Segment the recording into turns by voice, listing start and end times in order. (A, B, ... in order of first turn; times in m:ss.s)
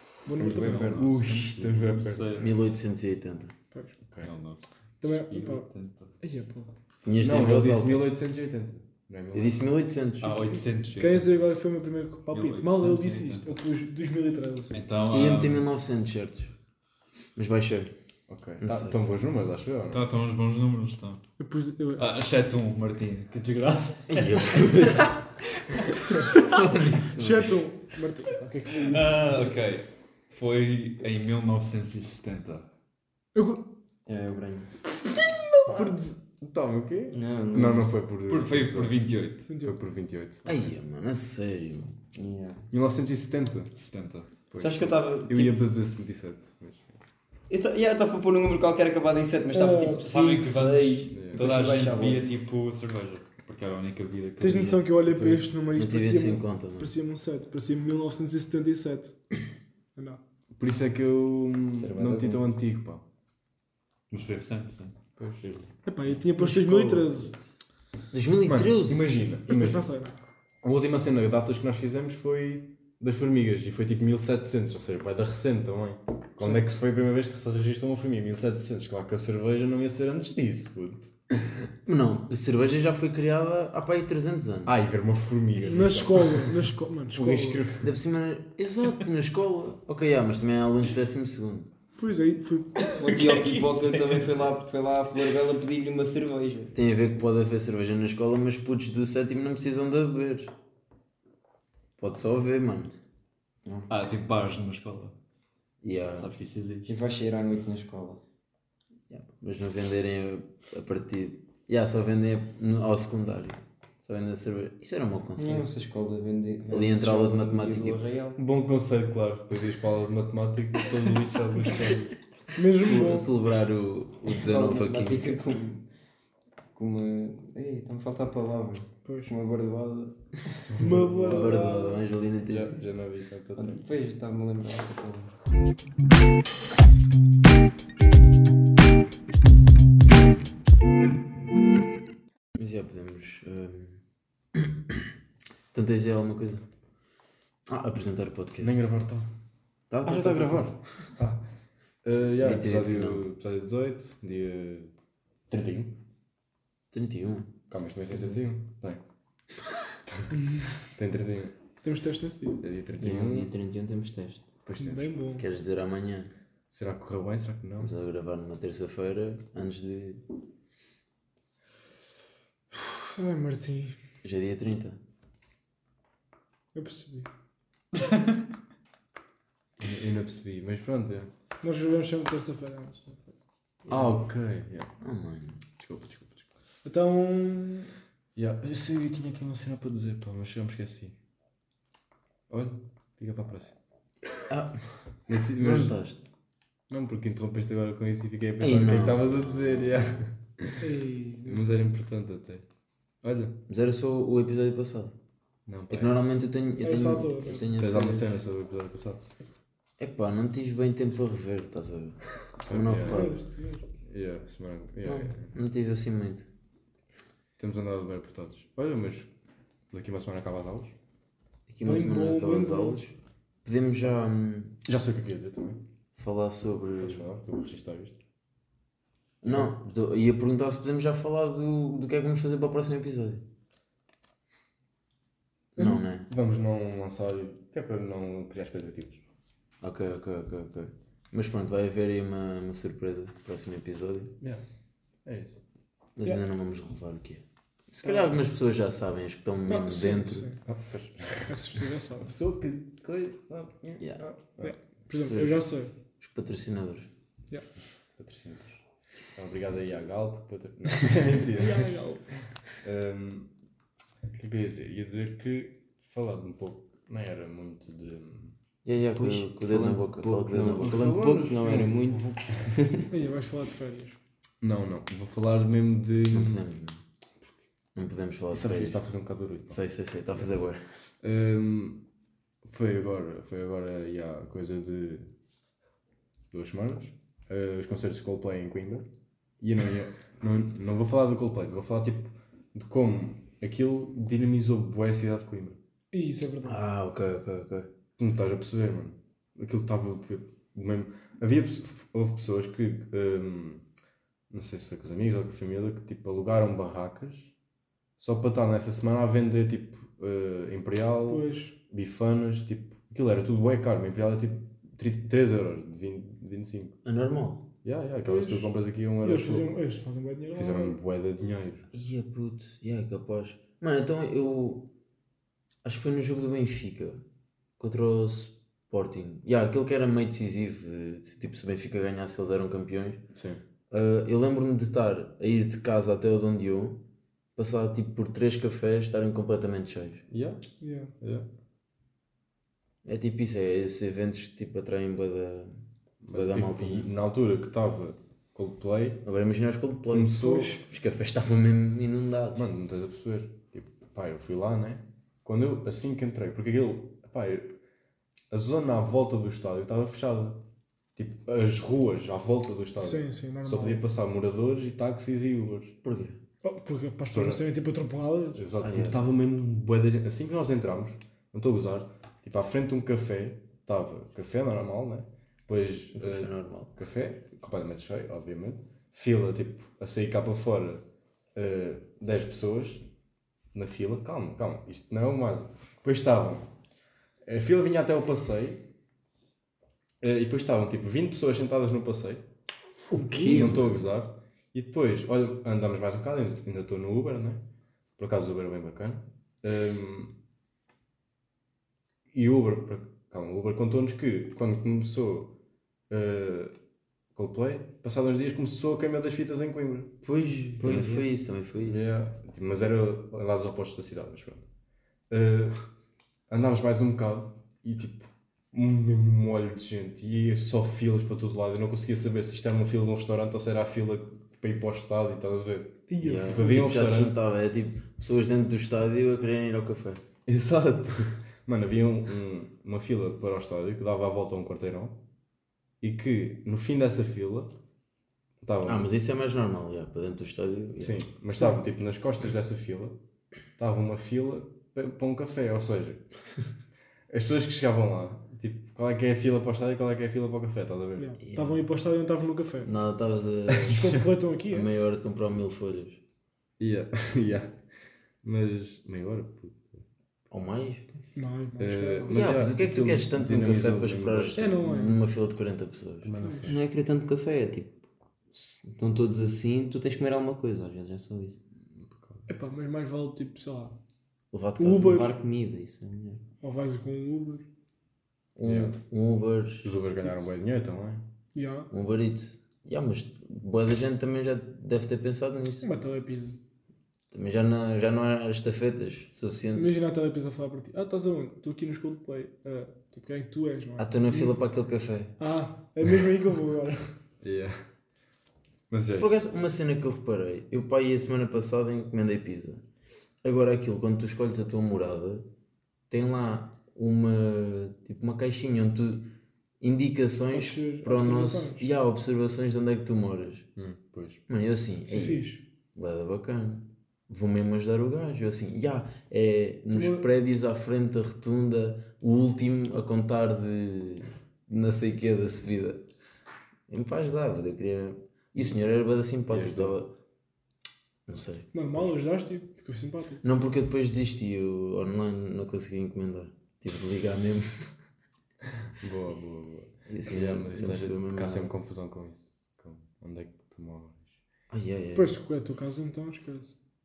0:00.2-0:01.2 A
0:00.3-0:02.4 B
0:00.3-0:02.5 C
0:02.4-0:03.5 D
0:04.1-0:04.3 B
0:04.2-0:04.7 C
0:05.0-0:05.7 A
0:05.3-0:06.1 C
0:06.2-0:06.7 A
0:07.0-0:08.1 D
0:07.2-0:09.6 B
0:09.3-0:10.6 D
0:10.2-0:11.4 C
0:10.9-0:14.8 A
0:12.3-0:13.6 C
0:14.7-0:15.7 C
0:15.1-0:16.5 D
0:17.4-0:17.9 D
0:18.3-0:20.0 B
0:18.6-0:19.0 D
0:19.9-0:21.2 C
0:21.4-0:22.1 A
0:22.0-0:25.1 C
0:24.1-0:25.1 D
0:25.7-0:26.9 C
0:26.5-0:27.4 D
0:27.2-0:29.5 A
0:28.7-0:32.6 C
0:33.4-0:33.6 A
0:34.1-0:34.7 E
0:35.7-0:39.1 B
0:37.1-0:37.9 E
0:38.3-0:39.4 C
0:39.5-0:39.8 A
0:39.6-0:40.6 B
0:40.5-0:42.0 D
0:42.1-0:42.7 E
0:42.7-0:43.7 B
0:43.8-0:44.3 C
0:44.5-0:47.0 B
0:44.6-0:45.5 E
0:47.5-0:52.3 E
0:49.5-0:50.0 A
0:49.8-0:54.9 C
0:51.1-0:51.5 B
0:54.4-0:59.2 A
0:55.1-0:55.4 B
0:55.7-0:56.9 D
1:00.0-1:00.2 A
1:00.6-1:03.0 B
1:01.8-1:02.4 E
1:04.1-1:05.0 C
1:05.2-1:05.7 B
1:05.8-1:07.4 A
1:06.4-1:07.4 D
1:08.1-1:09.2 D
1:08.5-1:09.8 B
1:09.5-1:10.2 A
1:10.6-1:21.7 B
1:21.9-1:24.7 D
1:24.7-1:27.9 B
1:25.6-1:27.7 A
1:27.8-1:31.7 D
1:32.0-1:32.9 A
1:32.8-1:34.3 C
1:33.0-1:36.7 E
1:36.7-1:40.5 D
1:42.0-1:42.9 D
1:43.9-1:45.2 C
1:45.8-1:46.3 D
1:46.1-1:46.9 C
1:46.9-1:48.2 E
1:49.1-1:55.7 D
1:55.4-1:58.4 E
1:56.7-1:58.0 D
1:58.4-2:02.1 B
2:02.6-2:03.3 A
2:02.7-2:05.4 D
2:04.3-2:05.8 E
2:06.7-2:10.6 E
2:09.0-2:09.4 A
2:10.7-2:11.9 B
2:10.8-2:12.0 A
2:11.3-2:12.7 D
2:12.4-2:13.8 B
2:13.6-2:15.3 E
2:22.6-2:24.0 D
2:24.6-2:25.1 D
2:25.7-2:26.6 D
2:27.7-2:28.8 D
2:28.6-2:29.3 B
2:29.9-2:30.8 D
2:30.0-2:31.4 B
2:32.0-2:34.9 B
2:32.4-2:33.3 D
2:35.5-2:36.0 B
2:36.9-2:37.5 D
2:37.7-2:39.0 B
2:40.3-2:40.8 A
2:40.8-2:41.6 B
2:41.8-2:42.6 A
2:42.6-2:43.5 B
2:43.0-2:44.4 E
2:44.7-2:45.2 B
2:44.8-2:45.4 A
2:45.4-2:46.3 D
2:46.7-2:47.9 B
2:47.8-2:50.2 D
2:52.7-2:54.0 A
2:54.2-2:55.0 D
2:56.8-2:57.3 A
2:57.9-2:58.4 C
2:59.8-3:01.3 B
3:01.6-3:03.3 A
3:03.9-3:04.9 B
3:03.9-3:04.2 D
3:05.0-3:05.6 D
3:05.8-3:06.5 B
3:06.8-3:07.9 A
3:08.4-3:11.2 B
3:12.5-3:13.8 B
3:14.5-3:14.8 D
3:15.3-3:16.0 B
3:15.6-3:16.2 D
3:16.9-3:20.8 B
3:18.6-3:19.7 D
3:20.8-3:21.7 A
3:21.5-3:22.6 B
3:23.2-3:23.6 B
3:23.7-3:25.1 D
3:25.7-3:26.2 B
3:25.9-3:28.3 D
3:26.8-3:27.7 A
3:27.8-3:29.2 B
3:30.0-3:33.4 D
3:32.6-3:33.3 B
3:33.0-3:33.8 A
3:34.0-3:35.5 B
3:35.0-3:36.5 D
3:37.6-3:39.3 B
3:39.9-3:40.9 B
3:41.7-3:44.8 D
3:41.8-3:43.0 A
3:44.9-3:45.8 B
3:46.2-3:47.2 D
3:47.0-3:48.2 B
3:49.4-3:53.4 D
3:49.4-3:49.7 B
3:55.8-3:56.3 D
3:56.3-3:59.2 B
3:59.8-4:04.3 D
4:05.2-4:05.6 B
4:06.2-4:10.5 D
4:08.0-4:08.4 A
4:09.7-4:10.6 A
4:10.7-4:14.8 B
4:11.5-4:12.4 A
4:14.6-4:15.9 A
4:15.3-4:15.6 D
4:16.2-4:17.1 D
4:18.2-4:18.8 B
4:19.4-4:21.9 B
4:21.5-4:22.4 A
4:22.8-4:23.5 B
4:24.3-4:28.5 B
4:28.8-4:31.2 D
4:29.2-4:33.1 E
4:30.7-4:32.6 B
4:33.1-4:34.2 A
4:34.6-4:36.6 B
4:36.3-4:37.0 D
4:38.0-4:39.0 D
4:38.5-4:39.8 B
4:39.7-4:40.8 D
4:40.3-4:40.6 B
4:41.2-4:42.0 B
4:42.6-4:45.3 B
4:46.5-4:49.1 B
4:49.6-4:55.8 B
4:56.1-4:56.8 A
4:56.6-4:57.9 D
4:58.2-5:03.8 B
5:04.5-5:07.5 B
5:08.2-5:17.0 B
5:11.3-5:11.8 A
5:17.0-5:17.6 D
5:17.8-5:19.8 B
5:18.3-5:18.7 A
5:19.2-5:21.0 A
5:20.5-5:21.9 B
5:21.9-5:24.9 D
5:25.8-5:27.2 D
5:27.8-5:33.2 D
5:33.3-5:33.6 B
5:33.9-5:37.0 D
5:37.6-5:40.2 D
5:40.3-5:40.6 B
5:40.8-5:41.1 A
5:41.2-5:41.5 B
5:43.0-5:45.8 D
5:46.2-5:49.2 B
5:46.3-5:47.1 D
5:49.2-5:52.7 D
5:50.1-5:50.8 B
5:52.6-5:57.8 B
5:58.5-6:00.6 B
6:01.2-6:06.0 B
6:03.0-6:04.0 A
6:06.0-6:06.4 D
6:06.6-6:08.6 A
6:07.3-6:07.6 B
6:08.5-6:21.0 B
6:08.8-6:09.2 D
6:16.2-6:16.9 D
6:21.6-6:23.1 B
6:23.7-6:26.7 B
6:27.4-6:28.8 B
6:30.2-6:32.4 B
6:33.0-6:34.0 D
6:33.1-6:33.8 A
6:33.5-6:37.6 B
6:38.2-6:40.3 B
6:42.3-6:45.5 B
6:46.1-6:46.8 B
6:47.3-6:50.2 B
6:50.2-6:52.1 D
6:50.8-6:51.2 E
6:50.8-6:51.3 B
6:51.8-6:54.7 B
6:55.3-6:55.8 B
6:56.5-7:07.4 B
7:06.1-7:06.9 A
7:06.2-7:10.2 D
7:10.5-7:15.2 B
7:16.0-7:17.7 B
7:18.6-7:19.1 B
7:18.9-7:21.2 D
7:21.0-7:23.2 B
7:23.8-7:26.2 B
7:27.3-7:31.3 B
7:31.2-7:33.0 A
7:31.4-7:31.8 D
7:32.8-7:34.1 D
7:33.8-7:34.9 A
7:33.9-7:34.2 B
7:34.7-7:36.2 D
7:36.8-7:37.8 B
7:38.4-7:40.0 B
7:40.5-7:41.1 D
7:41.4-7:42.5 A
7:41.8-7:44.7 B
7:42.3-7:46.3 D
7:44.6-7:45.2 A
7:46.2-7:46.8 B
7:46.4-7:46.7 A
7:46.7-7:48.0 E
7:48.5-7:51.6 E
7:51.9-7:52.5 B
7:52.5-7:54.0 A
7:54.5-7:55.3 D
7:54.8-7:55.3 A
7:55.0-7:56.4 E
7:56.6-7:57.7 A
7:58.6-7:59.9 D
7:58.6-7:59.0 B
7:59.8-8:01.3 B
8:01.6-8:01.9 A
8:01.9-8:05.9 D
8:05.8-8:06.6 A
8:07.3-8:09.9 D
8:09.7-8:14.6 A
8:14.0-8:15.4 D
8:15.4-8:17.1 A
8:17.4-8:17.8 B
8:18.9-8:19.4 B
8:19.2-8:22.8 D
8:23.4-8:25.5 D
8:26.1-8:29.3 D
8:29.8-8:33.7 D
8:30.5-8:31.9 A
8:33.8-8:34.4 B
8:34.5-8:46.0 D
8:35.1-8:35.6 A
8:39.9-8:40.3 A
8:46.9-8:50.1 D
8:49.5-8:50.0 B
8:51.3-8:51.7 D
8:51.7-8:53.4 A
8:53.4-8:57.7 D
8:59.0-9:04.3 B
9:00.1-9:01.7 D
9:04.7-9:05.4 D
9:05.2-9:06.8 A